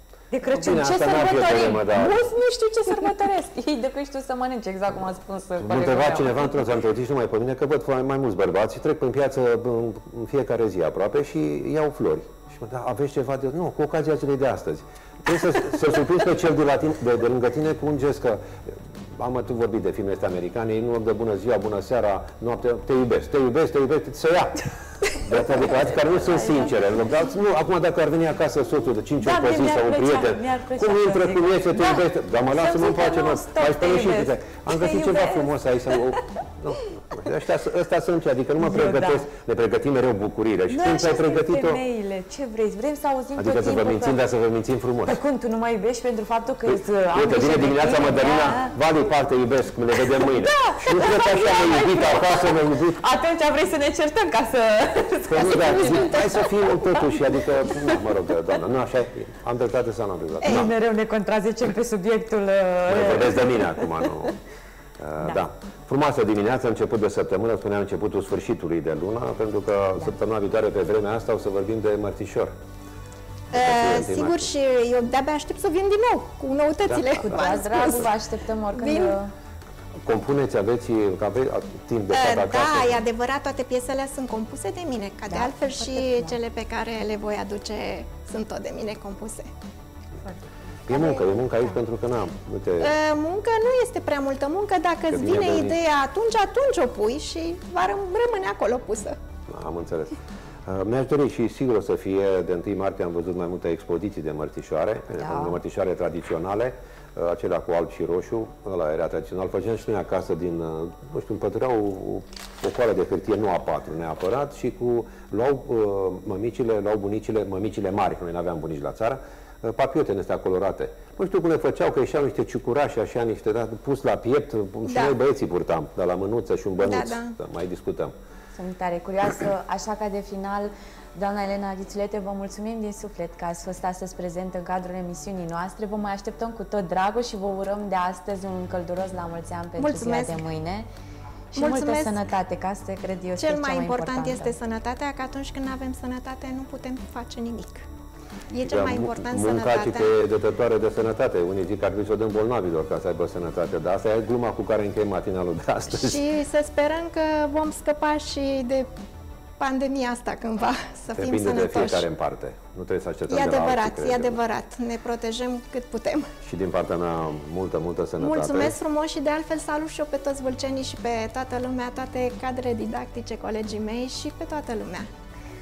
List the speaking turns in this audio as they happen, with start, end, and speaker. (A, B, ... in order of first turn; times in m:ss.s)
0:00.3-0:06.7 A
0:00.5-0:02.3 B
0:05.6-0:41.8 B
0:26.0-0:27.3 A
0:29.2-0:36.0 A
0:38.6-0:39.3 A
0:40.7-0:44.2 A
0:43.4-0:45.2 B
0:45.0-0:48.8 A
0:46.7-0:53.0 B
0:50.2-0:58.0 A
0:55.2-1:00.7 B
1:00.4-1:04.1 A
1:02.9-1:04.4 B
1:05.0-1:12.6 B
1:13.5-1:14.5 B
1:13.5-1:18.1 C
1:16.9-1:17.9 B
1:17.2-1:19.3 A
1:18.7-1:19.2 C
1:20.0-1:23.0 B
1:22.1-1:29.5 C
1:25.3-1:26.4 A
1:30.2-1:31.7 A
1:30.9-1:33.0 B
1:32.8-1:39.2 C
1:35.1-1:35.8 B
1:39.5-2:08.1 B
1:45.2-1:45.6 A
2:04.9-2:05.2 C
2:06.8-2:07.4 C
2:08.6-2:20.9 A
2:19.8-2:20.4 C
2:21.5-2:24.6 A
2:21.6-2:22.2 C
2:23.4-2:27.9 C
2:28.5-2:30.1 C
2:28.6-2:36.2 B
2:35.9-2:38.9 C
2:39.6-2:42.1 C
2:41.2-2:44.4 B
2:43.3-2:46.3 C
2:46.4-2:48.8 B
2:48.2-2:55.1 C